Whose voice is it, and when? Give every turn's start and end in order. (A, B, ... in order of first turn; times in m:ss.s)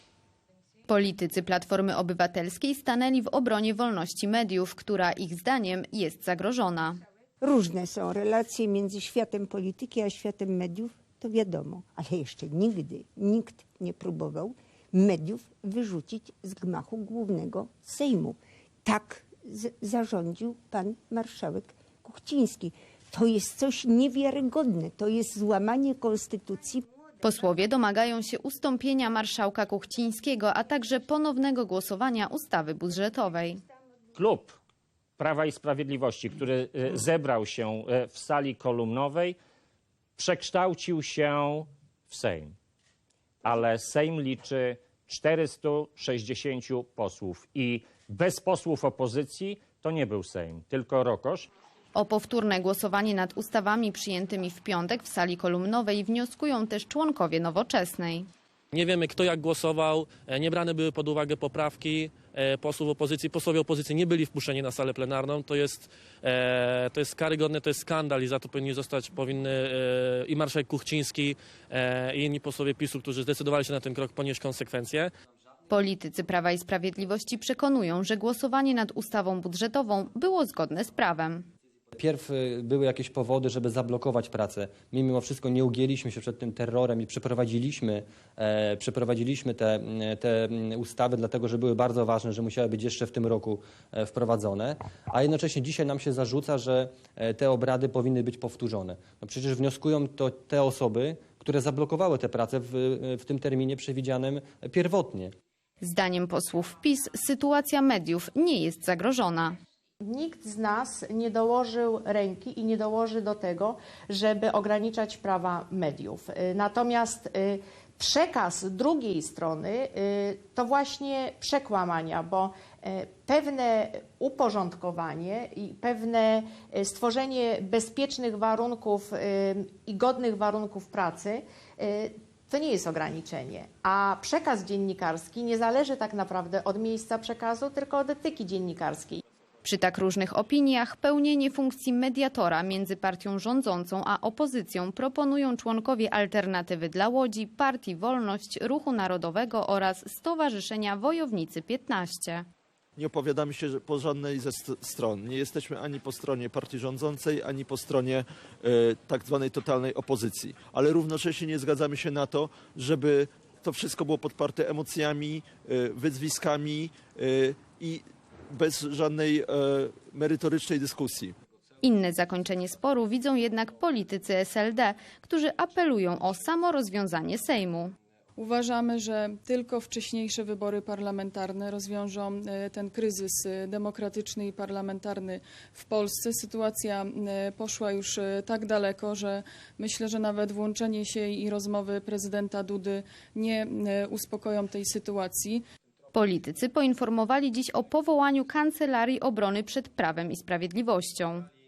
0:00.9-0:07.0 A
0:07.4-0:26.8 B
0:27.2-0:33.6 A
0:34.2-0:34.5 C
0:35.2-0:39.4 C
0:40.2-0:42.5 C
0:43.5-0:51.5 C
0:51.9-0:58.3 A
0:58.7-1:15.1 D
1:15.7-1:21.4 A
1:21.9-1:45.3 E
1:45.8-1:49.6 A
1:50.0-2:19.2 F
2:19.6-2:32.4 A
2:33.0-2:51.3 G
2:51.8-2:57.9 A
2:58.4-3:15.6 H
3:16.1-3:21.5 A